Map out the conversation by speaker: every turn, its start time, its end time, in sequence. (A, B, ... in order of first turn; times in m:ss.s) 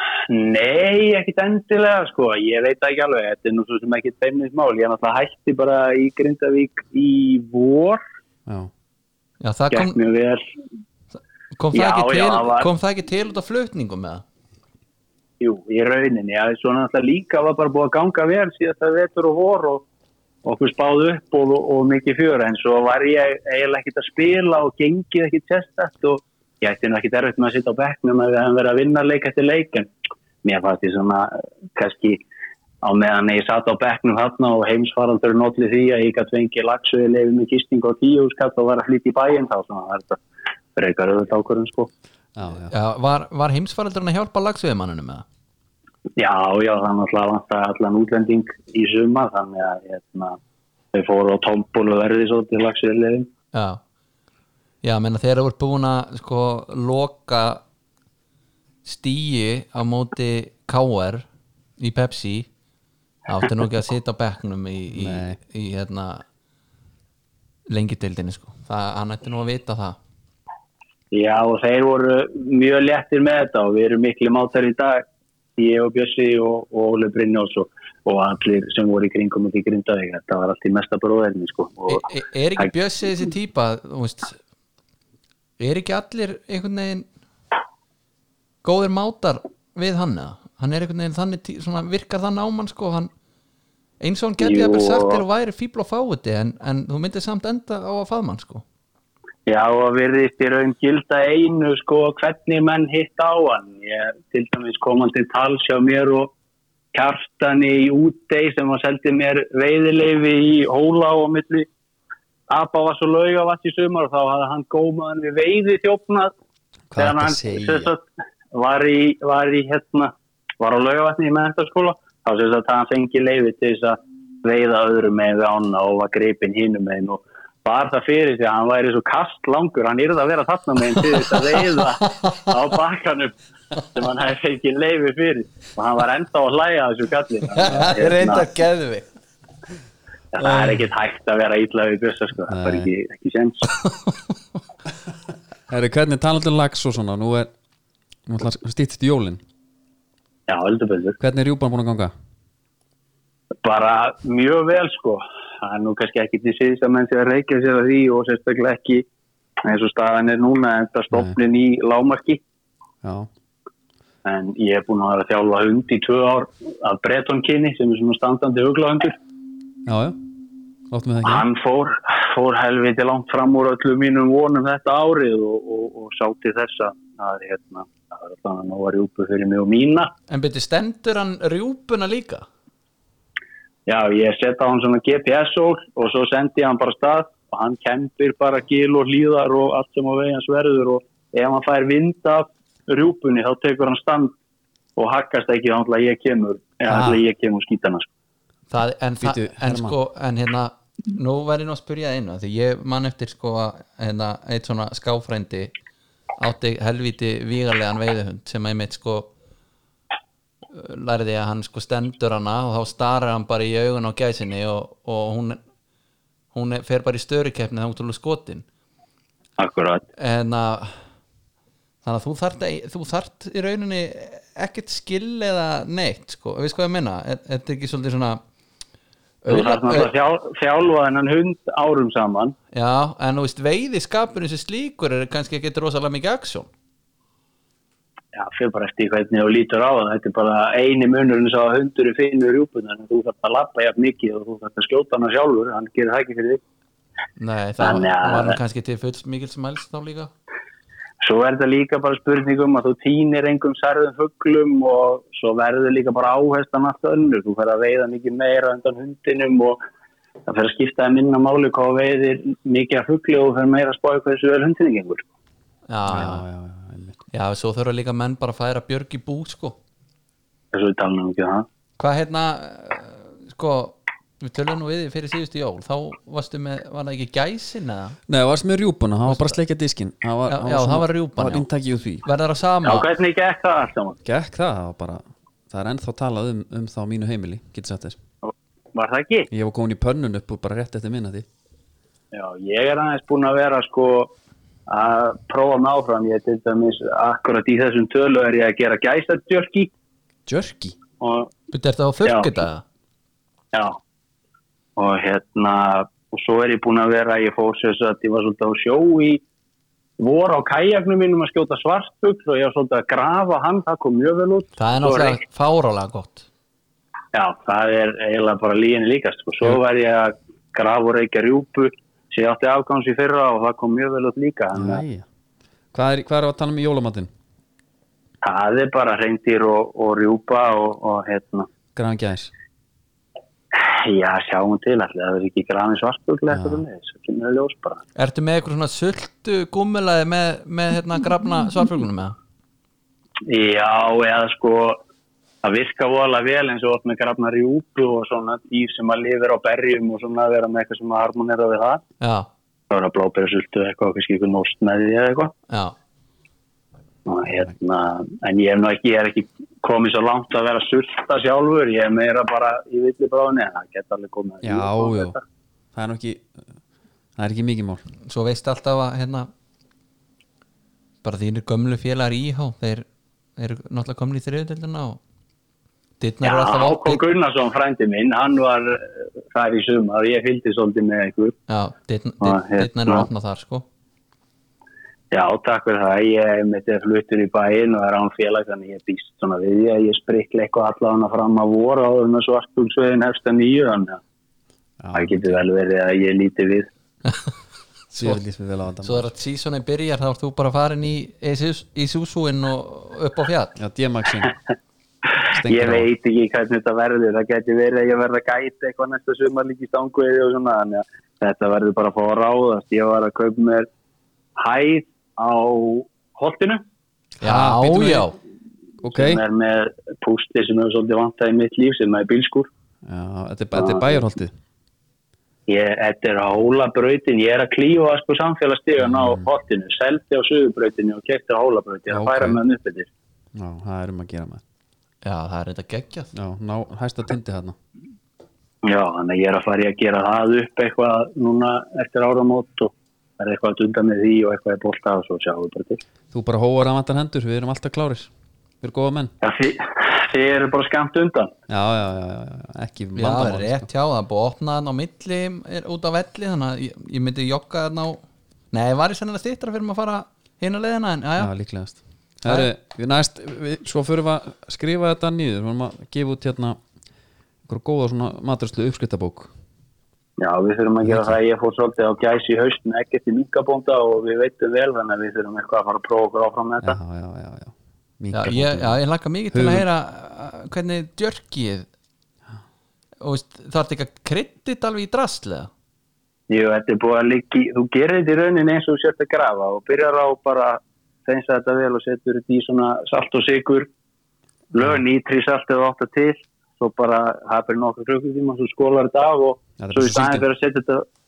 0:00.3-0:08.0 A
0:09.4-0:10.0 B
0:09.7-0:10.4 A
0:11.5-0:14.2 B
0:11.7-0:12.7 A
0:15.4-0:19.8 A
0:20.4-0:29.9 A
0:30.4-0:32.2 A
0:32.8-0:40.2 A
0:40.8-0:41.9 A
0:42.4-0:42.7 C
0:42.7-0:45.2 B
0:46.2-0:50.4 A
0:50.9-0:53.3 A
0:53.5-0:53.8 B
0:54.8-0:57.6 B
0:58.8-1:01.2 B
1:01.8-1:02.5 B
1:03.2-1:06.2 B
1:04.9-1:05.4 C
1:07.7-1:10.0 B
1:11.1-1:15.0 A
1:15.6-1:22.1 A
1:21.9-1:24.4 B
1:25.6-1:27.0 B
1:28.6-1:33.1 B
1:34.0-1:38.6 B
1:34.4-1:35.2 A
1:39.4-1:46.3 A
1:46.9-1:51.7 A
1:52.5-1:56.3 A
1:56.9-1:57.9 C
1:57.0-2:18.5 A
2:12.0-2:12.5 B
2:17.6-2:19.1 B
2:20.3-2:23.6 A
2:22.5-2:22.9 C
2:23.8-2:24.1 B
2:25.7-2:27.5 C
2:28.2-2:29.4 C
2:30.5-2:31.2 A
2:31.2-2:32.1 C
2:33.6-2:39.0 A
2:39.6-2:42.4 A
2:43.0-2:43.3 C
2:44.2-2:49.2 A
2:49.8-2:50.2 C
2:50.9-2:51.5 C
2:51.2-3:00.1 A
3:00.3-3:02.4 B
3:03.8-3:14.3 A
3:15.0-3:18.1 A
3:16.9-3:17.2 C
3:18.7-3:25.7 B
3:19.2-3:20.0 C
3:26.4-3:29.3 B
3:30.7-3:35.6 B
3:36.5-3:38.6 B
3:39.6-3:40.0 A
3:40.2-3:41.0 B
3:42.0-3:48.4 B
3:49.4-3:50.1 B
3:49.5-3:52.6 A
3:52.7-3:56.7 B
3:58.3-4:06.6 A
4:07.4-4:10.3 B
4:07.8-4:08.6 A
4:11.2-4:19.8 A
4:20.5-4:25.2 A
4:25.9-4:26.4 B
4:26.1-4:27.2 C
4:27.3-4:29.8 B
4:30.7-4:31.6 A
4:32.0-4:38.2 B
4:38.3-4:42.2 C
4:39.3-4:39.6 B
4:40.5-4:41.6 B
4:42.2-4:43.1 B
4:42.8-4:44.2 A
4:44.2-4:48.2 C
4:48.4-4:49.5 A
4:49.5-4:51.5 C
4:52.3-4:54.3 A
4:54.9-4:59.9 A
5:00.5-5:01.0 C
5:01.2-5:01.5 A
5:01.7-5:02.8 B
5:02.2-5:02.5 A
5:03.7-5:04.0 A
5:05.0-5:09.4 A
5:10.2-5:15.4 A
5:14.8-5:16.5 B
5:17.3-5:25.0 A
5:24.7-5:25.2 C
5:25.9-5:27.3 C
5:28.4-5:31.7 A
5:31.9-5:32.5 C
5:33.7-5:38.0 A
5:36.5-5:36.8 C
5:38.2-5:42.4 B
5:43.5-5:45.0 A
5:45.6-5:52.0 A
5:52.2-5:52.5 B
5:52.9-5:55.5 A
5:55.7-5:55.9 B
5:57.2-6:05.4 A
6:04.6-6:05.4 C
6:05.9-6:06.6 C
6:07.4-6:08.0 C
6:08.2-6:09.5 B
6:11.2-6:13.0 B
6:13.6-6:15.2 B
6:16.2-6:17.2 B
6:16.4-6:21.6 A
6:21.7-6:23.8 B
6:22.4-6:23.3 A
6:25.3-6:34.2 A
6:35.0-6:35.6 C
6:35.1-6:36.9 A
6:38.1-6:39.3 C
6:39.0-6:43.8 B
6:43.8-6:44.5 C
6:45.4-6:53.9 A
6:45.5-6:46.1 C
6:54.6-6:56.8 A
6:57.4-6:58.3 C
6:57.4-6:58.4 B
6:59.0-6:59.4 C
6:59.1-7:02.7 A
7:03.0-7:04.5 C
7:03.8-7:04.1 A
7:05.7-7:13.1 A
7:09.0-7:09.5 C
7:12.1-7:12.6 C
7:13.5-7:14.6 C
7:15.2-7:16.3 B
7:16.3-7:17.8 C
7:18.8-7:26.0 A
7:26.3-7:28.3 C
7:28.8-7:29.3 C
7:29.4-7:31.5 A
7:31.7-7:33.9 C
7:33.2-7:41.5 B
7:41.4-7:46.8 C
7:47.7-7:49.5 C
7:50.4-7:57.0 A
7:51.0-7:51.4 C
7:56.8-7:59.0 C
7:58.3-8:01.9 B
7:59.5-7:59.8 C
8:03.2-8:05.7 B
8:06.5-8:13.9 A
8:14.7-8:21.0 A
8:19.8-8:20.4 C